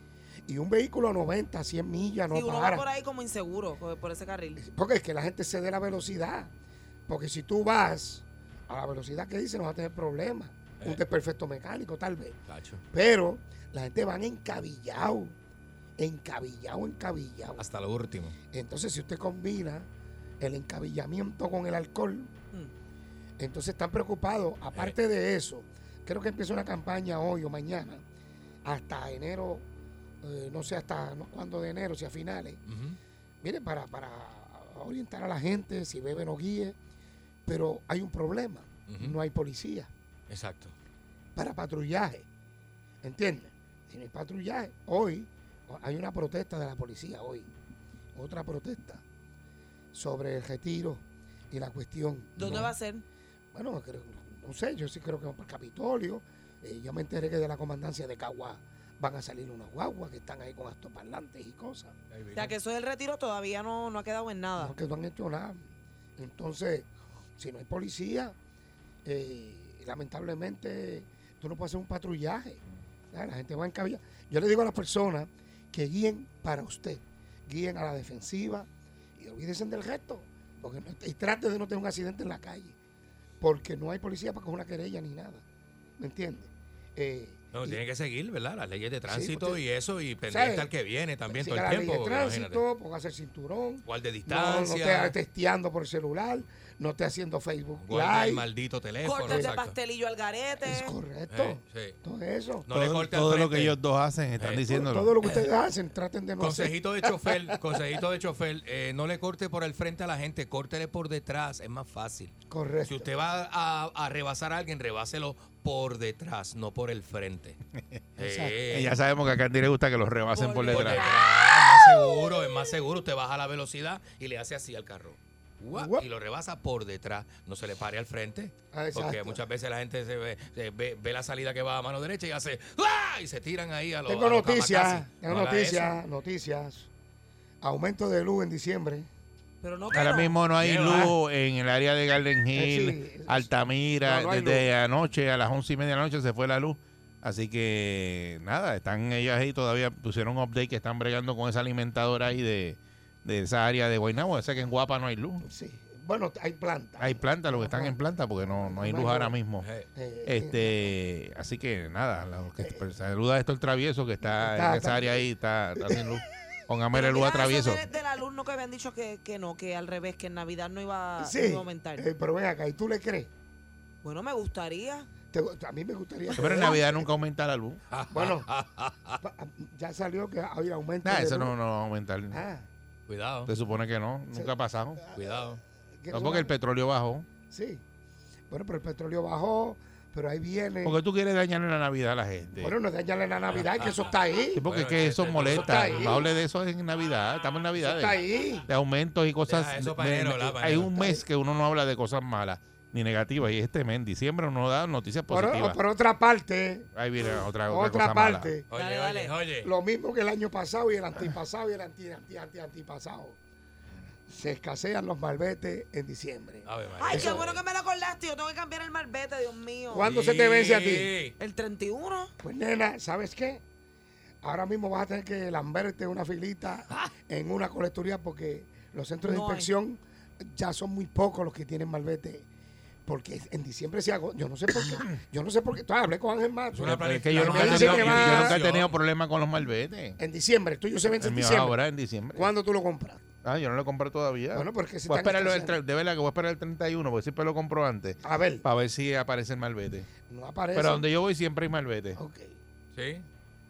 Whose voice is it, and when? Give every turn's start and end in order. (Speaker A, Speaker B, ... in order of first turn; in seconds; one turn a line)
Speaker A: 0.5-2.9
Speaker B: 2.3-4.6
Speaker A: 4.6-6.5
Speaker A: 7.1-12.4
Speaker C: 12.5-12.8
Speaker A: 12.9-15.3
Speaker A: 16.0-17.6
Speaker C: 17.6-18.4
Speaker A: 18.5-19.9
Speaker A: 20.4-22.3
Speaker A: 23.4-28.0
Speaker A: 28.6-29.6
Speaker A: 30.2-32.6
Speaker C: 32.7-33.0
Speaker A: 33.4-36.8
Speaker A: 37.5-39.9
Speaker C: 38.9-39.2
Speaker C: 40.3-40.8
Speaker A: 41.4-42.3
Speaker A: 43.0-47.5
Speaker A: 48.1-49.0
Speaker A: 49.9-52.7
Speaker B: 52.4-53.0
Speaker C: 52.4-52.7
Speaker A: 53.5-61.9
Speaker C: 62.1-62.5
Speaker B: 62.3-64.7
Speaker A: 64.6-68.3
Speaker A: 69.0-72.6
Speaker A: 73.1-82.8
Speaker A: 83.4-85.4
Speaker A: 86.0-87.8
Speaker C: 87.5-92.6
Speaker A: 89.1-89.6
Speaker A: 90.3-90.7
Speaker A: 91.3-98.5
Speaker C: 93.9-95.2
Speaker C: 97.8-99.8
Speaker B: 99.0-100.9
Speaker A: 99.2-99.5
Speaker A: 100.7-102.7
Speaker C: 101.3-102.0
Speaker C: 102.7-103.8
Speaker D: 102.7-105.2
Speaker C: 104.4-104.7
Speaker A: 104.7-107.4
Speaker C: 105.2-105.5
Speaker C: 106.4-112.3
Speaker A: 112.5-113.1
Speaker C: 112.9-117.6
Speaker A: 118.2-118.6
Speaker C: 118.2-119.0
Speaker D: 118.7-121.1
Speaker B: 120.3-121.3
Speaker C: 120.7-136.0
Speaker A: 125.7-126.0
Speaker A: 128.7-129.4
Speaker A: 134.1-136.9
Speaker A: 137.6-139.1
Speaker B: 139.6-140.4
Speaker D: 139.9-155.4
Speaker C: 140.6-141.2
Speaker A: 142.5-143.5
Speaker A: 144.0-144.7
Speaker A: 155.4-159.3
Speaker D: 157.0-159.7
Speaker C: 159.6-159.9
Speaker A: 159.9-160.9
Speaker D: 160.3-167.8
Speaker A: 164.3-165.3
Speaker A: 165.8-166.2
Speaker B: 166.9-172.1
Speaker A: 171.2-173.3
Speaker B: 174.0-175.1
Speaker A: 175.3-177.1
Speaker D: 176.3-177.8
Speaker C: 177.9-179.2
Speaker A: 178.1-178.5
Speaker A: 179.2-181.5
Speaker D: 181.0-182.4
Speaker A: 182.3-182.7
Speaker C: 183.1-183.5
Speaker D: 183.5-185.0
Speaker C: 185.2-185.6
Speaker A: 186.0-186.5
Speaker D: 186.1-187.3
Speaker A: 187.5-187.8
Speaker A: 188.5-191.0
Speaker D: 190.8-192.8
Speaker A: 192.6-194.6
Speaker C: 193.5-194.1
Speaker D: 194.5-205.8
Speaker C: 194.7-196.2
Speaker A: 195.5-196.3
Speaker A: 197.8-198.7
Speaker C: 199.5-200.9
Speaker A: 201.0-201.2
Speaker A: 205.3-206.9
Speaker D: 206.9-208.6
Speaker A: 207.7-208.7
Speaker C: 208.7-209.7
Speaker B: 208.7-209.3
Speaker A: 209.6-213.4
Speaker A: 214.3-217.5
Speaker C: 216.7-217.6
Speaker B: 217.0-220.1
Speaker A: 219.9-221.2
Speaker C: 220.0-221.3
Speaker B: 221.4-222.3
Speaker A: 222.4-223.6
Speaker A: 224.4-232.5
Speaker B: 229.2-229.7
Speaker A: 233.1-238.6
Speaker C: 236.7-238.9
Speaker D: 236.8-240.2
Speaker A: 240.2-241.8
Speaker D: 241.2-242.5
Speaker A: 242.3-243.3
Speaker D: 243.4-250.1
Speaker A: 244.5-245.8
Speaker A: 248.2-248.7
Speaker A: 250.3-251.0
Speaker D: 250.7-252.2
Speaker A: 252.2-252.5
Speaker C: 252.9-253.3